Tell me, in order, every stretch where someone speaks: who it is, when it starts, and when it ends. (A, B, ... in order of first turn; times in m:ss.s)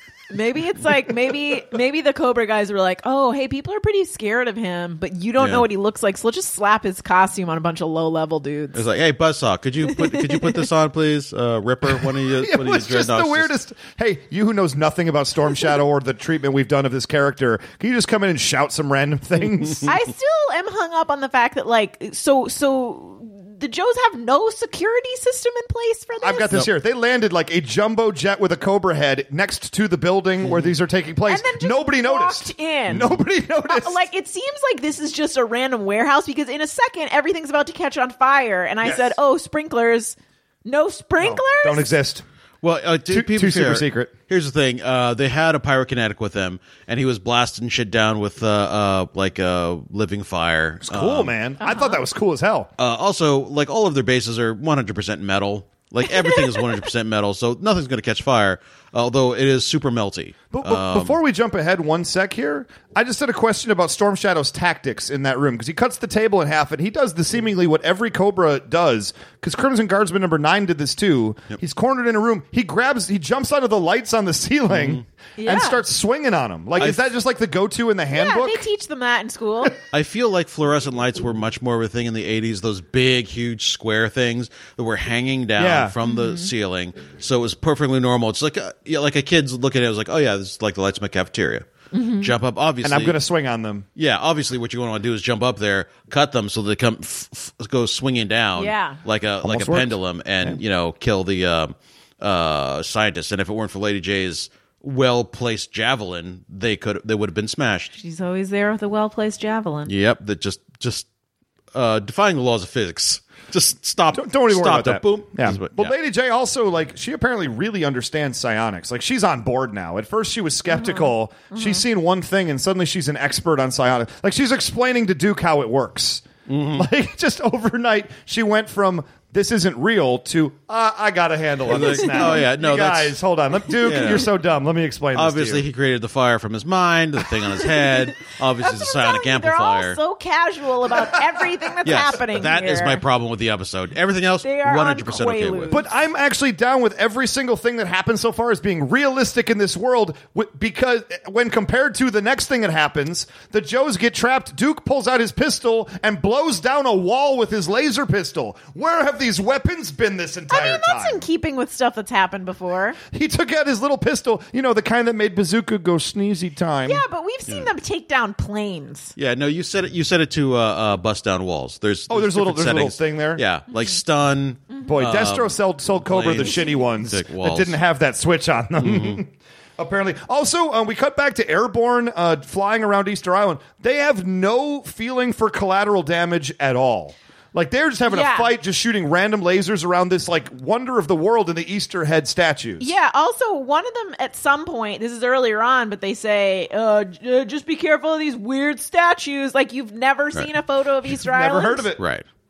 0:00.3-0:08.8 A
0:05.4-0:05.7 B
0:08.8-0:13.5 B
0:09.9-0:10.6 A
0:12.1-0:19.9 C
0:19.9-0:26.6 A
0:26.2-0:34.1 C
0:30.4-0:30.7 B
0:31.3-0:41.9 A
0:41.2-0:42.2 C
0:42.6-0:51.4 B
0:43.1-0:44.1 C
0:50.8-0:52.7 C
0:51.6-0:52.0 A
0:52.8-1:01.2 B
1:00.5-1:18.7 C
1:14.7-1:15.0 B
1:15.4-1:15.8 A
1:16.8-1:17.0 B
1:18.1-1:19.8 A
1:19.9-1:31.7 B
1:25.6-1:26.0 C
1:26.0-1:26.5 A
1:31.9-1:32.3 A
1:32.2-1:33.2 B
1:32.8-1:33.9 C
1:34.0-1:47.9 B
1:38.6-1:39.0 A
1:39.4-1:40.6 C
1:47.9-1:49.9 A
1:49.9-1:51.1 B
1:51.7-1:55.9 B
1:54.1-2:15.7 C
2:00.7-2:01.8 A
2:06.5-2:06.9 B
2:11.7-2:13.2 B
2:13.8-2:14.3 B
2:15.2-2:20.0 B
2:18.6-2:23.0 A
2:21.8-2:25.8 B
2:24.4-2:25.9 A
2:25.7-2:41.2 C
2:40.5-2:43.0 A
2:43.1-2:47.0 C
2:46.8-2:49.1 A
2:49.2-2:57.8 B
2:52.1-2:53.4 C
2:54.9-3:12.9 C
2:58.8-2:59.2 B
3:08.1-3:08.6 A
3:12.8-3:21.9 A
3:21.2-3:22.0 C
3:22.0-3:22.2 B